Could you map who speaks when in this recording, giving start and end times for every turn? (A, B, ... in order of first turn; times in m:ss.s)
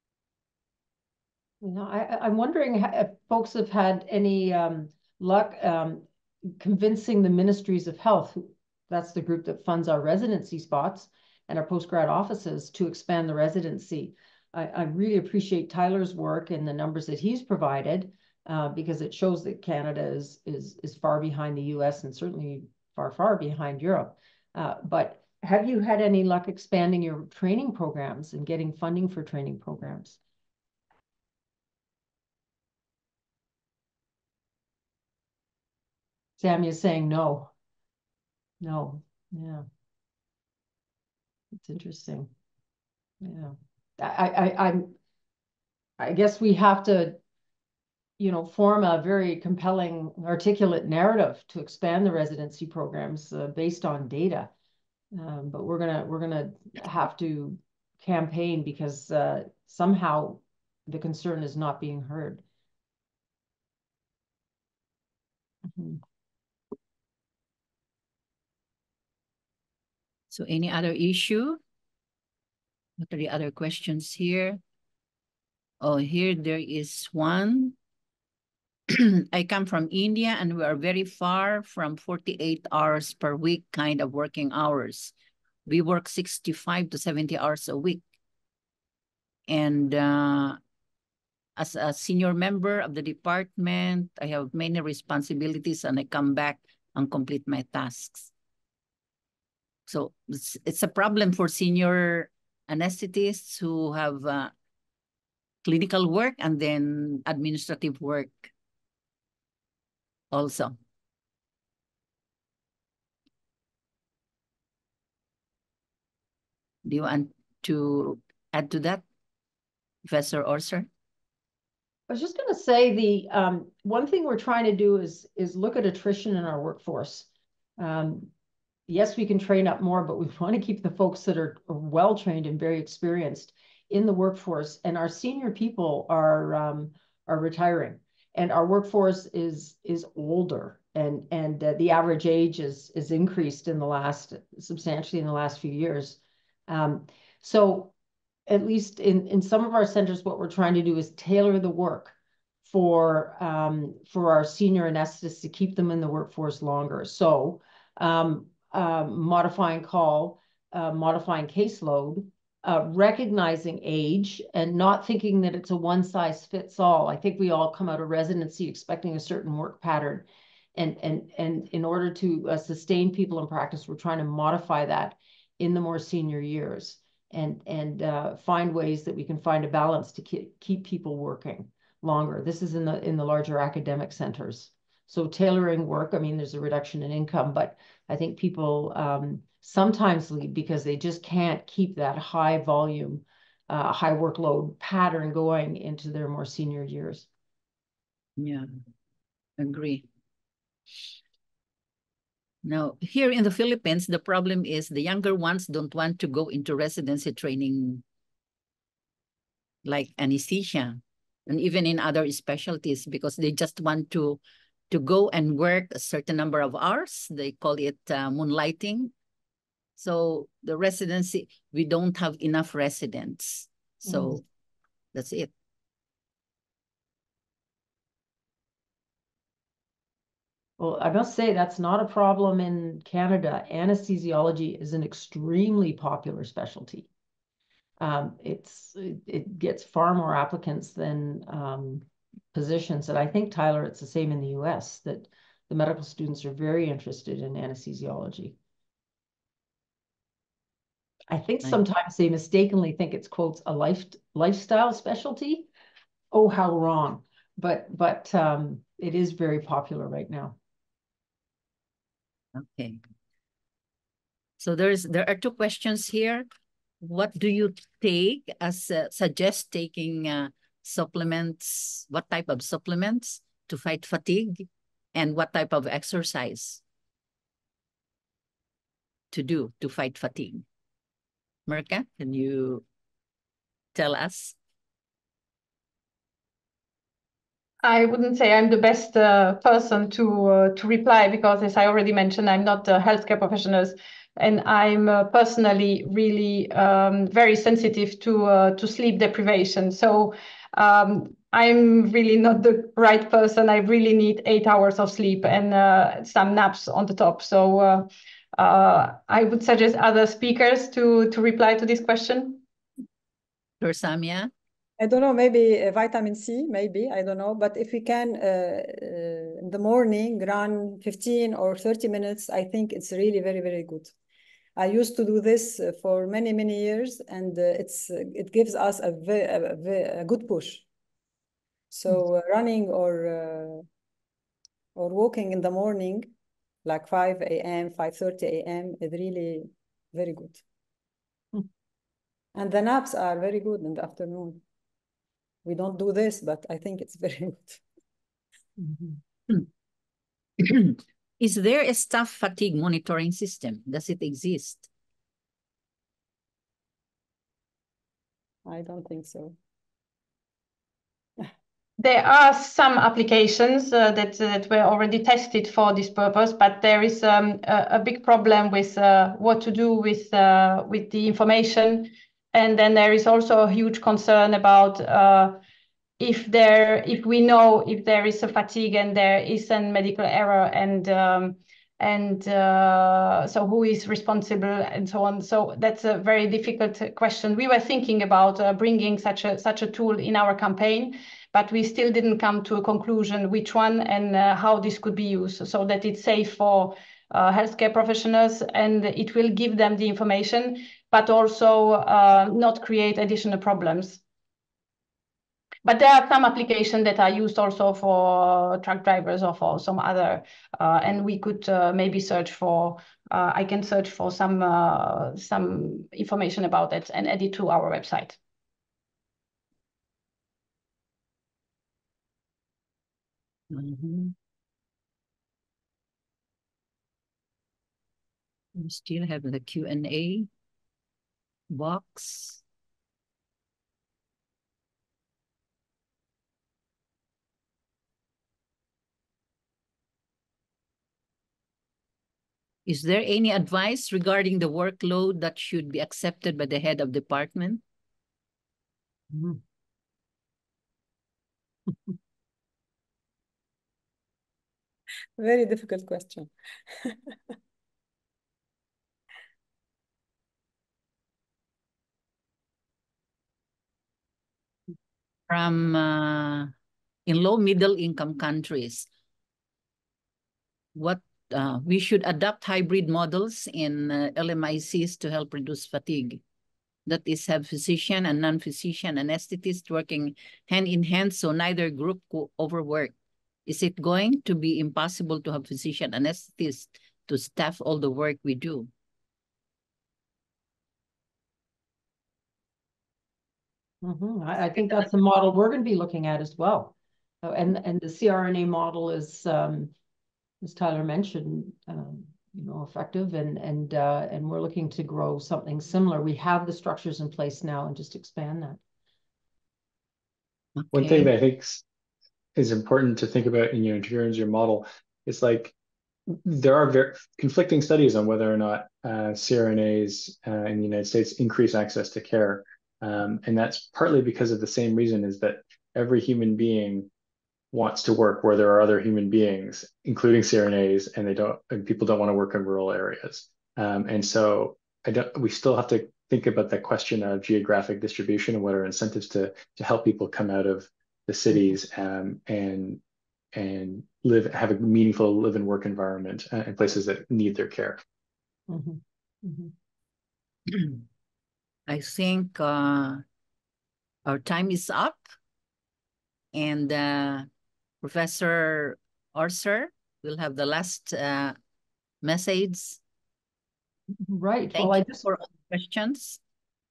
0:01.6-0:30.2 A
0:36.4-0:37.5 A
0:38.6-0:39.6 A
0:41.6-0:42.3 A
0:43.2-0:44.9 A
0:46.0-0:47.2 A
0:48.2-0:54.5 A
0:55.1-1:02.4 A
1:05.7-1:06.0 A
1:10.3-1:11.6 B
1:13.0-1:14.6 B
1:15.8-1:17.8 B
1:18.9-1:25.1 B
1:25.7-1:28.0 B
1:29.5-1:30.6 B
1:31.6-1:38.3 B
1:39.9-1:44.5 B
1:45.6-1:48.5 B
1:50.3-1:50.8 B
1:56.8-1:59.0 B
2:00.0-2:00.9 B
2:02.1-2:07.3 A
2:07.8-2:08.3 A
2:08.9-2:27.9 A
2:28.5-2:32.1 A
2:32.6-3:17.3 A
3:18.4-3:18.7 B
3:19.6-3:20.0 B
3:22.6-3:28.0 B
3:29.8-3:34.4 B
3:34.9-3:39.1 B
3:40.0-3:44.4 B
3:44.0-3:44.4 A
3:45.1-3:45.5 B
3:50.8-3:57.1 A
3:58.0-4:08.6 A
4:11.3-4:15.7 A
4:16.3-4:20.6 A
4:22.5-4:23.0 B
4:24.6-4:26.5 B
4:27.0-4:36.8 B
4:39.3-4:40.6 B
4:41.7-4:42.8 B
4:43.9-4:44.6 B
4:47.8-5:12.6 C
5:13.8-5:14.5 B
5:15.0-5:24.1 D
5:24.8-5:30.8 D
5:31.9-5:33.8 D
5:35.0-5:36.3 D
5:36.8-5:40.6 D
5:42.6-5:44.6 D
5:45.6-5:47.8 D
5:48.8-5:49.2 A
5:50.6-5:54.9 B
5:58.6-5:59.6 D
6:02.0-6:15.6 C
6:16.2-6:44.2 C
6:45.8-6:58.4 C
7:03.7-7:04.3 B
7:08.7-7:10.5 B
7:11.7-7:12.6 B
7:22.8-7:27.8 B
7:29.3-7:29.6 A
7:35.4-7:36.5 D
7:45.5-7:46.7 B
7:47.2-7:49.1 B
7:50.9-7:56.4 B
7:57.0-8:03.1 B
8:03.6-8:08.9 B
8:14.0-8:19.9 A
8:20.6-8:28.8 A
8:30.8-8:31.3 B
8:30.9-8:31.8 E
8:32.6-8:35.7 E
8:36.3-8:47.1 E
8:47.7-9:03.0 E
9:01.5-9:01.8 A
9:03.5-9:08.0 E
9:08.7-9:09.7 A
9:10.7-9:11.0 B
9:11.9-9:13.2 B
9:14.2-9:15.3 B
9:16.5-9:17.5 B
9:18.0-9:21.6 B
9:22.2-9:23.0 B
9:24.2-9:25.2 A
9:24.7-9:26.4 B